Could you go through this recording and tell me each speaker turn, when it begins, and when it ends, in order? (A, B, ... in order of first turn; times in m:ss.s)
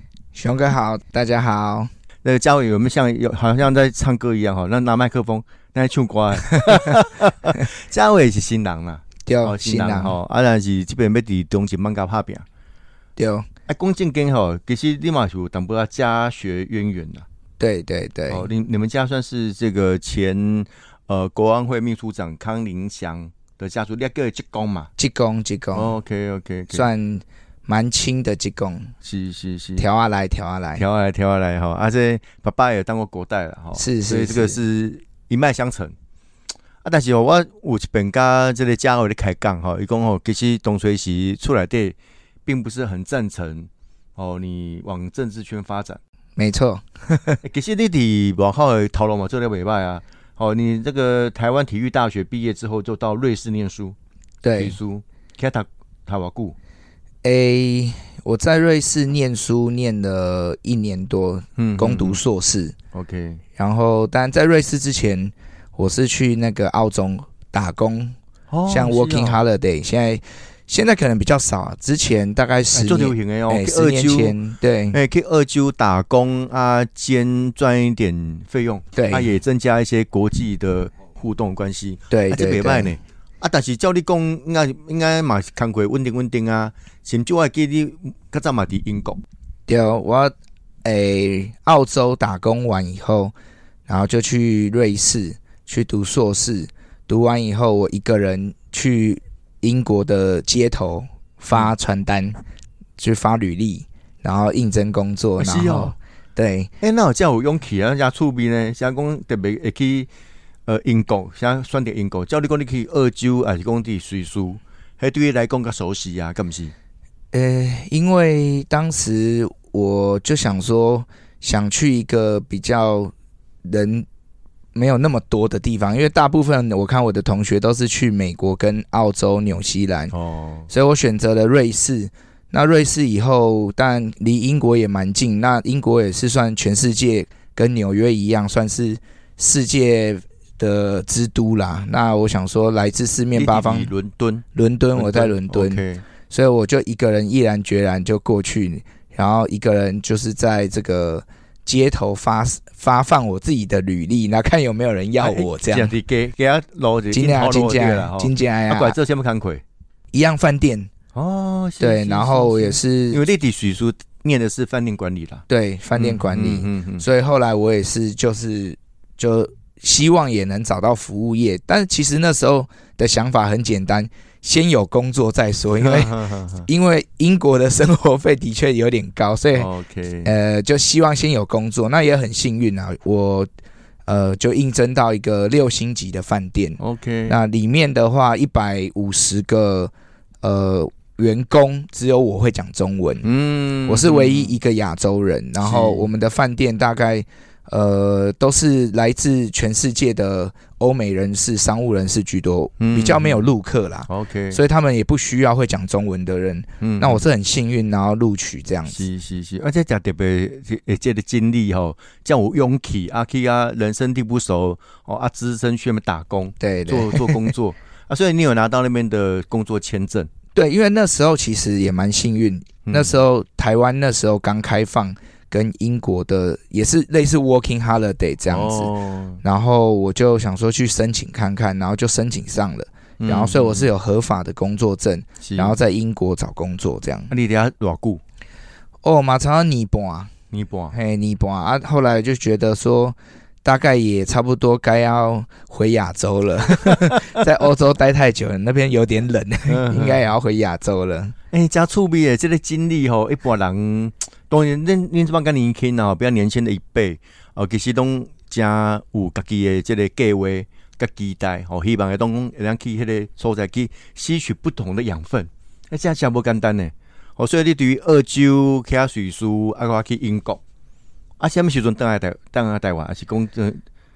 0:00.4-0:01.9 A
0:02.2-0:12.4 B
0:09.3-0:10.2 A
0:13.2-0:13.5 A
0:13.7-0:17.3 B
0:17.6-0:18.5 A
0:18.3-0:24.9 B
0:25.0-0:26.0 A
0:25.7-0:26.8 B
0:26.7-0:28.9 A
0:29.0-0:29.9 B
0:29.8-0:30.8 A
0:30.8-0:36.0 B
0:33.8-0:34.6 A
0:36.8-0:46.0 B
0:46.4-0:47.4 A
0:47.4-0:54.0 B
0:54.4-0:54.8 A
0:54.6-0:56.6 B
0:57.2-1:02.8 A
1:01.6-1:02.2 B
1:02.9-1:03.4 B
1:03.6-1:08.2 A
1:08.5-1:09.4 B
1:08.7-1:15.0 A
1:12.7-1:14.4 B
1:14.9-1:29.2 B
1:18.9-1:19.3 A
1:22.1-1:22.9 A
1:29.7-1:33.3 A
1:33.9-1:42.4 A
1:43.0-1:46.7 A
1:45.4-1:46.0 B
1:46.8-1:50.1 B
1:50.7-1:56.7 B
1:57.3-2:03.1 A
2:03.6-2:04.1 A
2:04.8-2:10.1 A
2:10.1-2:10.7 B
2:10.7-2:23.9 A
2:23.3-2:24.4 B
2:24.5-2:35.9 A
2:25.0-2:26.0 B
2:35.2-2:39.6 B
2:37.1-2:39.0 A
2:40.1-2:40.9 A
2:41.2-2:45.4 B
2:41.8-2:43.2 A
2:45.5-2:59.7 A
2:46.0-2:47.0 B
2:55.8-2:56.7 B
2:59.6-3:00.3 B
3:00.2-3:03.5 A
3:04.1-3:13.3 A
3:06.8-3:07.4 B
3:13.2-3:14.5 B
3:13.9-3:29.0 A
3:15.6-3:16.1 B
3:22.8-3:23.5 B
3:24.1-3:24.6 B
3:26.8-3:27.2 B
3:28.9-3:40.3 B
3:36.6-3:37.5 A
3:40.6-3:48.9 A
3:42.9-3:43.2 B
3:48.5-3:49.4 B
3:49.4-3:57.3 A
3:53.2-3:53.9 B
3:55.4-3:55.8 B
3:57.3-3:58.2 B
3:59.0-4:00.3 A
4:00.5-4:01.0 B
4:00.9-4:11.4 A
4:06.9-4:07.1 B
4:09.7-4:10.2 B
4:11.5-4:30.6 B
4:31.4-4:33.8 B